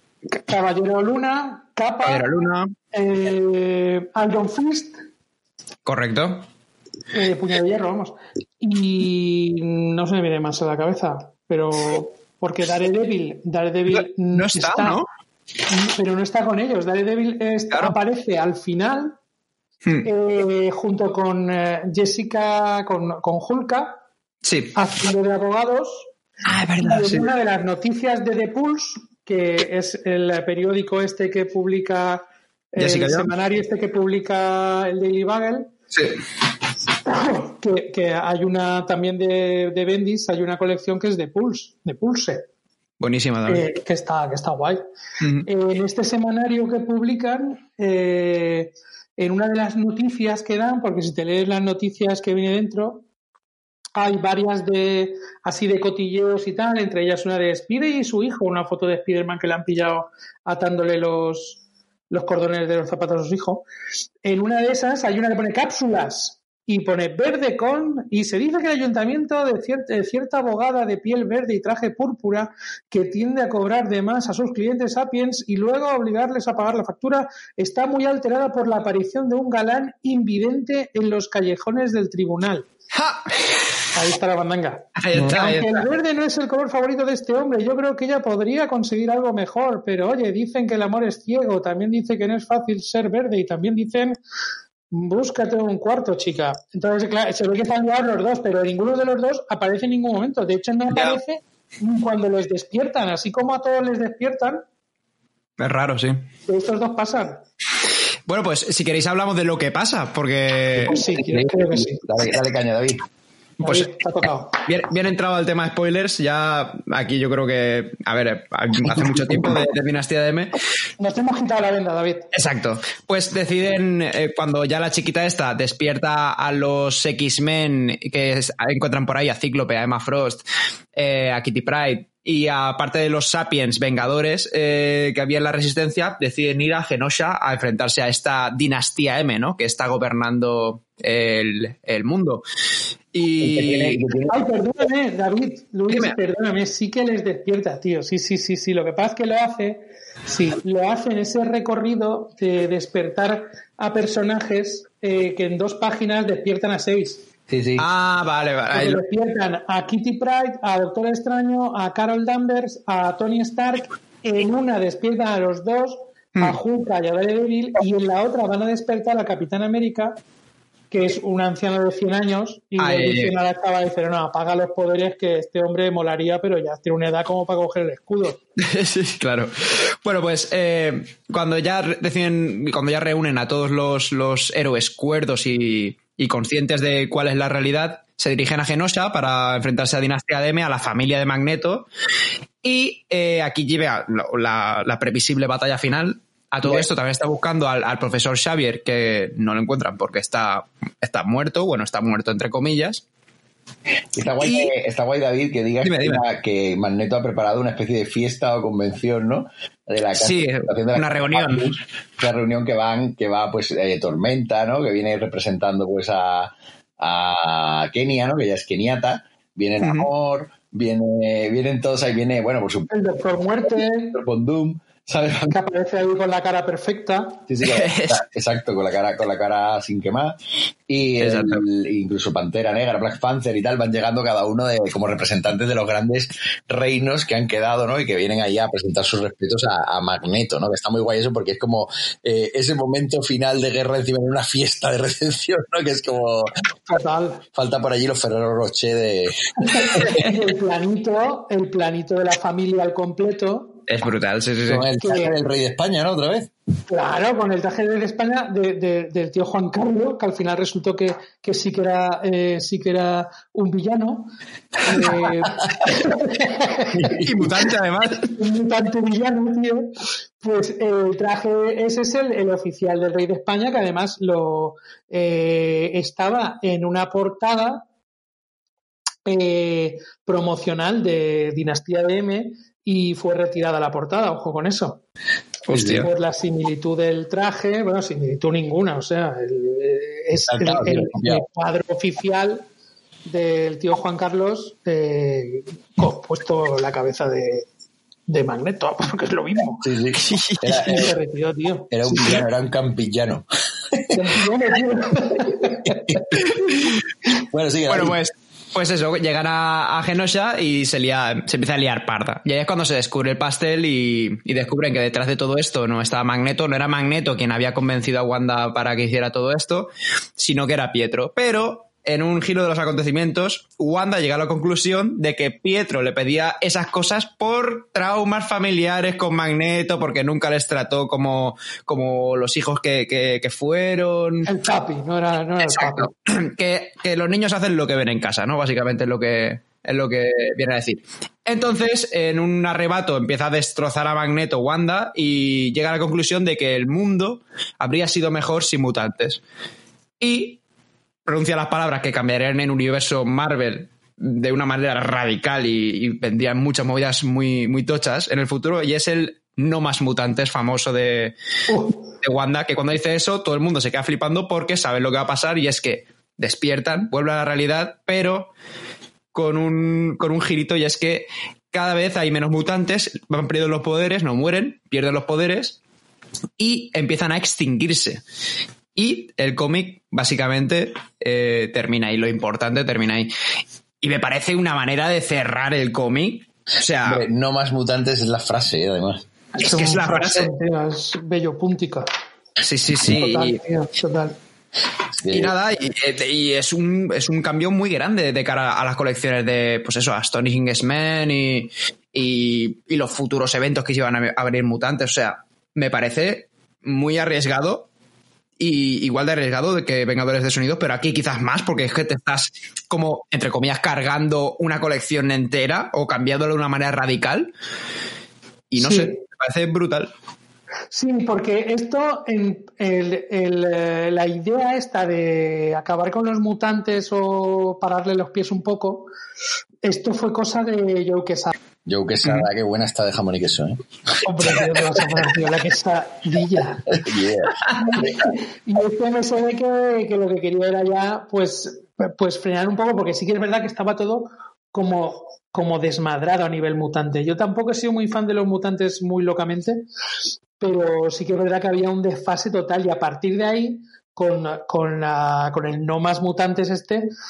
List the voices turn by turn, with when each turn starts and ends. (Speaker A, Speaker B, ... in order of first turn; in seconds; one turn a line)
Speaker A: 0.3-2.2
Speaker B: 2.0-2.7
Speaker A: 2.9-5.0
Speaker B: 5.8-6.5
Speaker A: 7.1-15.0
Speaker B: 14.3-15.0
Speaker A: 15.7-19.2
Speaker A: 20.0-24.0
Speaker B: 24.4-24.7
Speaker A: 24.7-26.1
Speaker B: 26.5-27.3
Speaker A: 26.8-35.7
Speaker B: 32.8-33.3
Speaker A: 37.1-42.5
Speaker B: 43.0-43.6
Speaker A: 43.5-44.8
Speaker B: 45.2-45.5
Speaker A: 45.5-53.0
Speaker A: 54.0-63.6
Speaker A: 64.2-82.7
Speaker B: 82.9-83.4
Speaker A: 83.9-94.2
Speaker B: 85.0-85.8
Speaker A: 94.9-104.6
Speaker B: 100.9-101.2
Speaker B: 105.6-106.2
Speaker A: 106.5-107.4
Speaker B: 108.3-111.0
Speaker A: 110.8-112.0
Speaker C: 111.3-113.0
Speaker A: 113.6-114.6
Speaker B: 114.7-120.6
Speaker A: 121.0-122.3
Speaker B: 122.3-142.4
Speaker B: 143.1-144.0
Speaker C: 143.4-144.3
Speaker A: 144.3-157.2
Speaker B: 145.9-146.2
Speaker C: 157.5-157.8
Speaker B: 157.8-159.0
Speaker A: 158.7-170.2
Speaker A: 170.9-178.4
Speaker B: 172.8-173.3
Speaker B: 178.6-191.9
Speaker B: 192.6-203.0
Speaker C: 204.1-222.9
Speaker B: 204.4-204.7
Speaker B: 205.8-206.2
Speaker B: 210.2-211.7
Speaker B: 219.8-220.1
Speaker A: 222.9-224.2
Speaker C: 224.1-225.6
Speaker A: 225.5-227.4
Speaker C: 227.5-230.4
Speaker B: 227.6-228.2
Speaker C: 230.9-246.5
Speaker B: 231.2-231.6
Speaker A: 246.9-247.4
Speaker C: 247.5-250.2
Speaker A: 249.6-253.8
Speaker B: 253.9-254.9
Speaker C: 254.7-256.5
Speaker A: 255.0-255.3
Speaker A: 256.9-264.3
Speaker A: 264.8-267.1
Speaker C: 266.9-267.5
Speaker B: 267.1-268.3
Speaker A: 268.4-269.9
Speaker A: 270.4-277.9
Speaker A: 279.2-285.0
Speaker B: 285.7-286.1
Speaker C: 285.7-286.0
Speaker A: 285.8-292.7
Speaker C: 290.5-291.4
Speaker A: 293.2-297.7
Speaker A: 298.3-299.9
Speaker C: 299.8-301.1
Speaker B: 300.3-300.8
Speaker A: 300.7-302.4
Speaker C: 301.9-304.1
Speaker A: 304.1-306.1
Speaker C: 305.8-306.5
Speaker C: 307.4-308.1
Speaker B: 307.9-334.5
Speaker A: 334.4-336.1
Speaker B: 335.6-349.4
Speaker B: 350.2-350.6
Speaker B: 351.2-361.4
Speaker A: 361.7-362.0
Speaker B: 362.2-368.5
Speaker B: 369.3-375.8
Speaker B: 376.6-378.2
Speaker B: 378.9-383.3
Speaker B: 384.0-387.2
Speaker C: 387.0-389.2
Speaker A: 389.5-392.1
Speaker B: 389.6-390.5
Speaker B: 392.6-393.6
Speaker A: 393.1-394.4
Speaker C: 395.2-395.5
Speaker B: 395.3-407.9
Speaker B: 408.6-417.5
Speaker B: 418.7-420.1
Speaker A: 418.8-419.2
Speaker A: 420.9-429.1
Speaker A: 429.8-431.5
Speaker C: 431.9-433.8
Speaker A: 434.2-436.9
Speaker C: 436.9-438.1
Speaker A: 437.7-449.9
Speaker A: 450.6-457.1